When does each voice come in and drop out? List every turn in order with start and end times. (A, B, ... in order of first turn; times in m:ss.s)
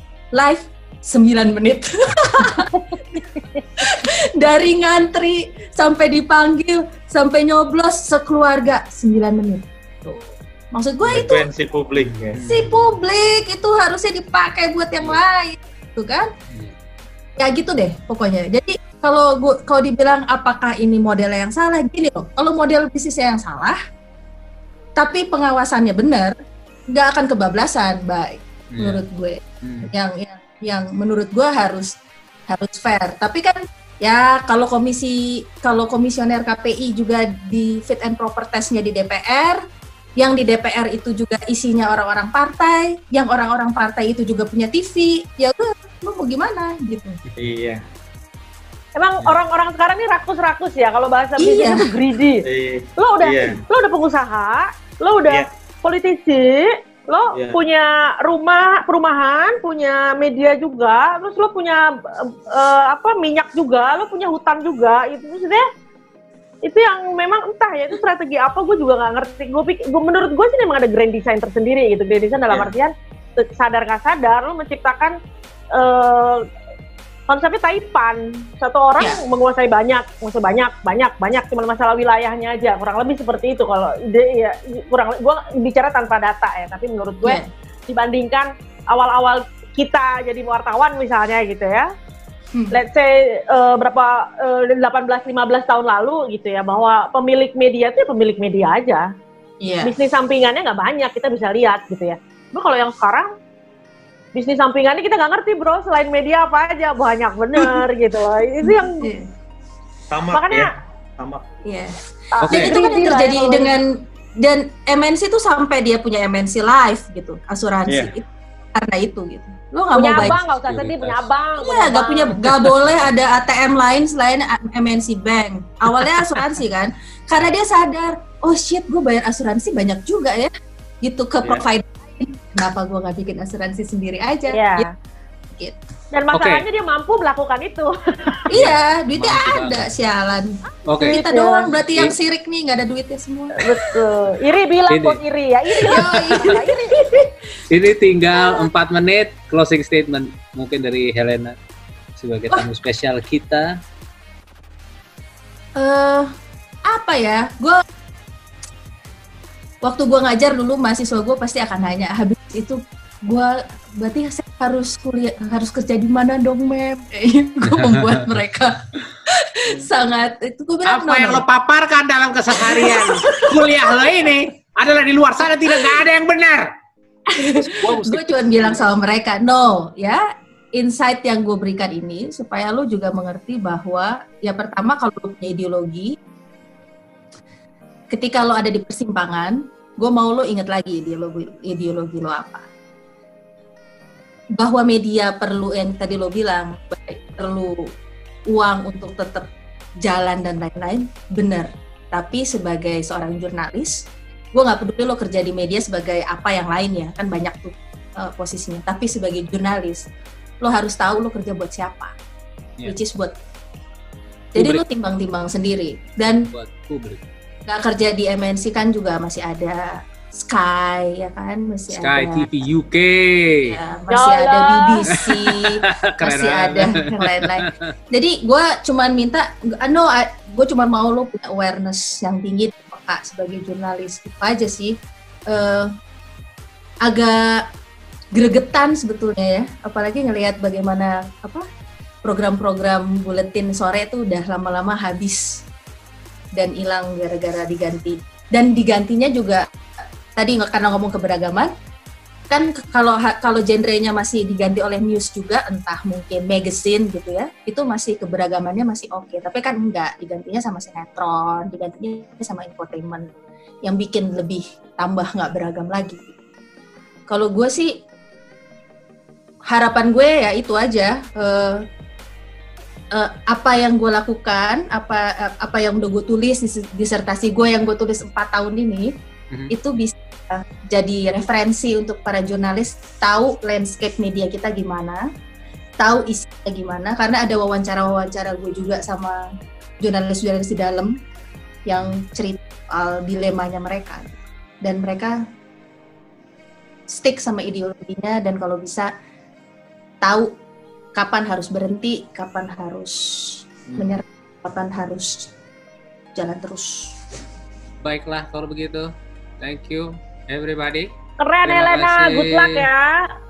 0:00.3-0:11.5 A
0:11.0-0:12.4 B
0:12.0-0:12.7 C
0:12.4-0:16.3 A
0:16.5-0:16.7 C
0:17.4-0:23.8 A
0:25.0-0:26.3 A
0:26.9-0:31.9 A
0:28.7-0:29.0 C
0:29.6-0:29.9 C
0:32.5-0:39.6 A
0:40.2-0:47.2 A
0:47.4-0:47.8 B
0:48.9-0:52.4 D
0:51.4-0:51.9 A
0:52.4-0:53.6 B
0:53.0-1:05.6 D
1:06.6-1:15.2 D
1:12.5-1:12.7 B
1:15.7-1:16.4 D
1:17.3-1:31.9 D
1:32.7-1:39.1 D
1:39.6-1:39.9 A
1:39.8-1:43.3 D
1:44.3-1:49.0 D
1:47.5-1:47.8 A
1:48.6-1:49.3 A
1:50.1-1:51.5 B
1:50.3-1:50.7 D
1:51.6-1:53.8 A
1:52.3-1:53.7 D
1:52.4-1:52.8 C
1:54.4-2:00.4 A
1:57.9-1:58.1 B
1:59.9-2:02.4 D
2:00.2-2:01.3 C
2:01.6-2:10.5 A
2:02.5-2:03.0 C
2:11.0-2:14.9 A
2:11.4-2:11.6 B
2:14.5-2:14.9 D
2:15.5-2:15.8 A
2:16.1-2:18.4 D
2:16.3-2:16.6 C
2:18.5-2:23.6 A
2:18.5-2:19.9 C
2:20.9-2:21.2 C
2:21.0-2:21.7 D
2:21.8-2:22.1 C
2:23.6-2:27.2 D
2:24.9-2:25.2 C
2:25.7-2:26.5 C
2:25.8-2:27.3 A
2:27.7-2:31.5 C
2:28.3-2:28.6 A
2:32.2-2:33.7 C
2:35.8-2:36.3 A
2:36.9-2:37.8 A
2:39.8-2:48.8 A
2:47.6-2:48.3 C
2:49.3-2:51.4 A
2:50.8-2:56.7 C
2:52.6-2:54.0 A
2:55.6-2:56.0 A
2:57.3-3:00.2 A
2:57.6-2:58.9 C
3:00.7-3:06.1 A
3:08.1-3:12.6 A
3:14.6-3:17.7 A
3:18.5-3:19.5 A
3:20.0-3:30.0 A
3:30.6-3:32.1 A
3:32.8-3:33.3 A
3:34.5-3:36.5 A
3:34.6-3:34.8 C
3:36.4-3:37.2 C
3:37.7-3:42.5 A
3:41.9-3:43.8 C
3:43.6-3:54.9 A
3:44.1-3:45.2 D
3:45.2-3:47.9 C
3:55.5-3:55.9 A
3:57.0-3:57.6 A
3:58.3-4:01.6 A
4:02.2-4:05.4 A
4:06.6-4:09.6 A
4:10.4-4:11.7 A
4:12.5-4:23.3 A
4:23.8-4:26.3 A
4:27.3-4:27.9 A
4:29.7-4:31.8 A
4:33.1-4:39.1 A
4:39.7-4:45.2 A
4:46.0-4:49.4 A
4:50.0-4:51.1 A
4:51.9-4:55.3 A
4:57.1-4:59.1 A
5:00.2-5:00.5 A
5:01.2-5:05.5 A
5:06.4-5:07.1 A
5:08.0-5:09.1 C
5:09.6-5:11.1 C
5:11.4-5:13.2 D
5:11.6-5:12.9 C